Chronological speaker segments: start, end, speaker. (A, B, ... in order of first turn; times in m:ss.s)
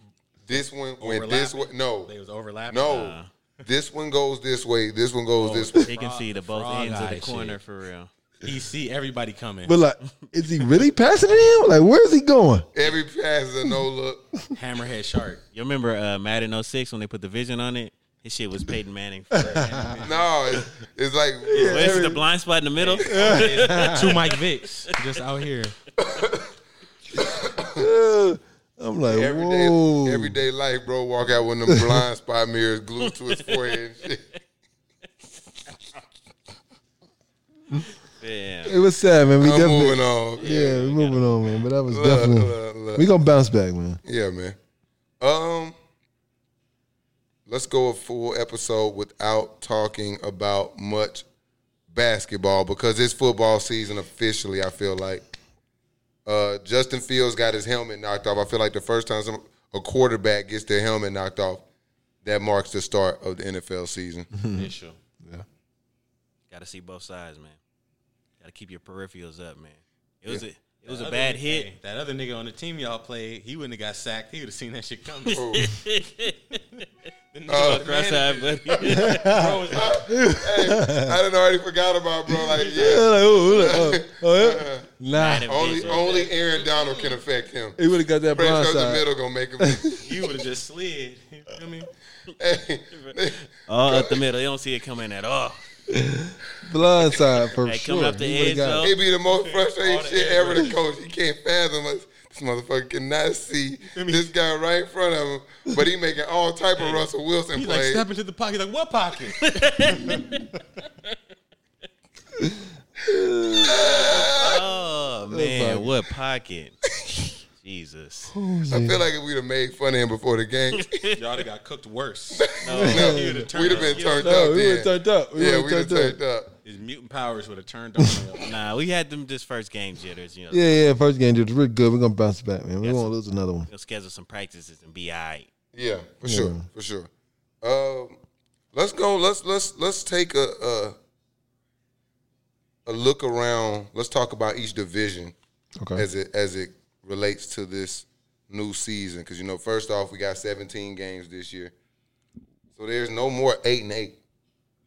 0:00.4-0:02.1 A
0:00.5-0:03.1 B
0:02.7-0:05.9 A
0:02.9-0:03.3 C
0:05.4-0:07.6 B
0:05.8-0:08.1 C
0:08.4-0:09.8 B
0:09.6-0:12.7 D
0:12.7-0:14.3 A
0:14.5-0:15.4 B
0:15.5-0:20.0 C
0:19.3-0:19.7 D
0:19.4-0:20.3 B
0:20.0-0:22.0 A
0:21.5-0:22.2 D
0:21.5-0:24.4 C
0:22.8-0:25.8 B
0:23.1-0:24.2 D
0:26.0-0:26.5 A
0:27.1-0:27.8 A
0:27.6-0:30.4 D
0:29.1-0:34.3 A
0:31.7-0:32.0 D
0:38.1-0:38.8 C
0:38.6-0:44.0 D
0:39.4-0:40.9 A
0:40.4-0:41.6 C
0:41.9-0:43.1 A
0:44.0-0:44.6 A
0:45.2-0:45.8 A
0:47.5-0:51.2 A
0:51.9-0:55.2 A
0:56.2-1:01.6 A
1:02.2-1:04.3 A
1:04.3-1:04.7 D
1:04.5-1:05.0 B
1:06.5-1:07.6 C
1:08.4-1:11.7 C
1:10.8-1:15.4 B
1:15.3-1:16.8 C
1:15.3-1:15.7 A
1:17.3-1:20.0 B
1:17.5-1:17.9 A
1:17.5-1:19.5 C
1:19.0-1:21.1 D
1:19.7-1:24.9 A
1:22.5-1:25.6 D
1:25.1-1:26.3 C
1:25.4-1:27.8 A
1:25.7-1:27.2 B
1:27.8-1:29.1 D
1:28.3-1:30.0 A
1:29.6-1:30.2 D
1:30.0-1:31.9 B
1:32.3-1:34.2 A
1:33.7-1:35.8 C
1:35.9-1:38.9 D
1:37.6-1:38.9 C
1:38.8-1:48.0 A
1:39.2-1:40.8 B
1:43.9-1:44.3 B
1:46.8-1:50.4 B
1:49.4-1:50.4 C
1:52.4-1:54.2 D
1:53.6-1:54.6 A
1:54.0-1:56.8 C
1:55.3-1:56.0 D
1:57.6-1:58.3 C
1:58.3-1:59.0 D
1:58.7-2:00.9 A
2:00.8-2:01.2 C
2:01.1-2:04.5 B
2:02.4-2:06.6 A
2:02.6-2:04.2 C
2:02.7-2:03.5 D
2:04.2-2:06.2 D
2:06.6-2:08.5 B
2:08.4-2:10.8 C
2:10.5-2:13.7 D
2:12.8-2:13.1 C
2:13.7-2:15.5 C
2:15.7-2:17.1 A
2:16.2-2:16.6 D
2:17.6-2:18.1 A
2:18.7-2:21.0 A
2:22.8-2:25.3 A
2:25.8-2:26.0 D
2:25.9-2:31.7 A
2:32.8-2:34.2 A